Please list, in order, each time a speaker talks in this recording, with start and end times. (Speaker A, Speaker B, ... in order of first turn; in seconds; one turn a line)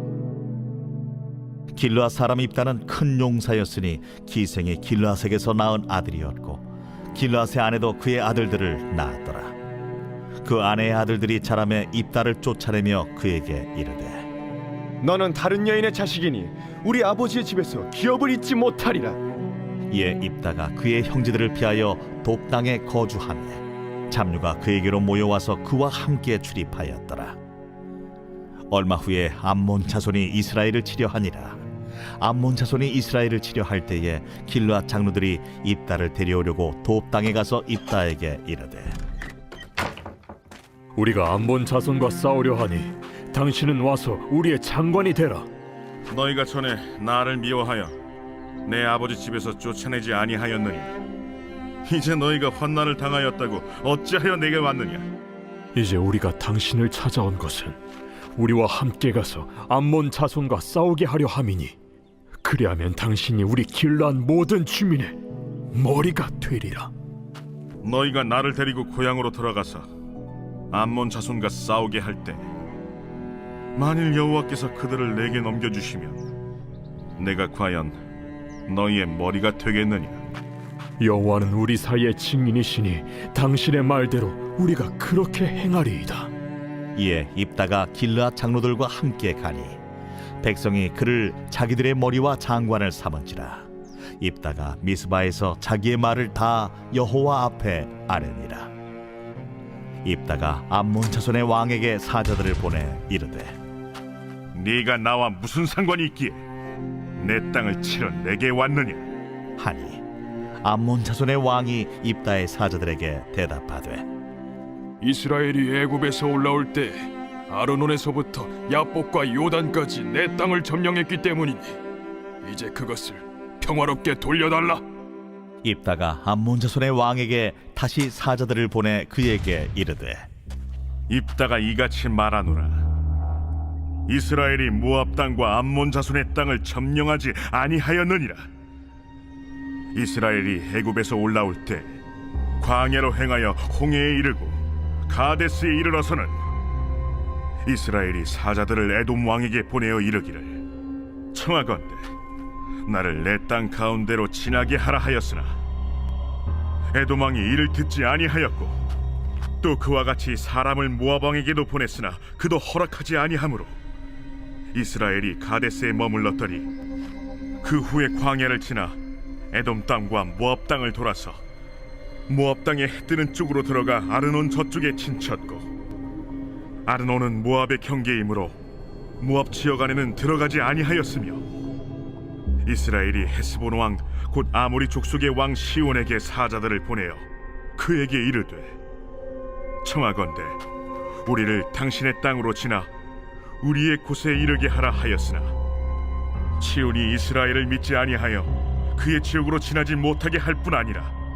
Speaker A: 1.7-9.5
Speaker A: 10.4-14.3
Speaker B: 15.0-19.2
Speaker A: 19.9-27.4
Speaker A: 28.7-31.6
Speaker A: 32.2-39.0
Speaker C: 41.0-45.5
Speaker D: 46.1-48.0
Speaker D: 48.6-50.9
Speaker D: 51.9-55.1
Speaker C: 55.8-57.8
Speaker C: 58.4-61.8
Speaker C: 62.4-65.2
Speaker C: 65.7-66.9
Speaker D: 67.8-69.9
Speaker D: 70.7-72.5
Speaker D: 73.8-76.2
Speaker D: 77.2-78.0
Speaker D: 78.7-80.2
Speaker C: 81.0-86.3
Speaker A: 87.0-89.8
Speaker A: 90.4-93.7
Speaker A: 94.2-98.7
Speaker A: 100.0-103.6
Speaker D: 104.5-106.4
Speaker D: 107.2-109.0
Speaker A: 109.6-110.0
Speaker A: 110.6-114.0
Speaker E: 115.0-121.8
Speaker E: 122.4-124.8
Speaker A: 125.6-130.2
Speaker D: 131.1-132.8
Speaker D: 134.1-138.5
Speaker D: 139.9-141.9
Speaker D: 142.6-146.4
Speaker D: 147.7-150.6
Speaker D: 151.3-152.0
Speaker D: 152.8-155.6
Speaker D: 156.9-158.8
Speaker D: 159.6-163.8
Speaker D: 164.7-166.7
Speaker D: 167.6-169.0
Speaker D: 169.5-171.4
Speaker D: 172.3-175.7
Speaker D: 176.9-178.6
Speaker D: 179.2-181.4
Speaker D: 182.7-187.2
Speaker D: 187.8-188.8
Speaker D: 189.8-190.6
Speaker D: 191.2-192.9
Speaker D: 193.6-195.5
Speaker D: 196.6-201.1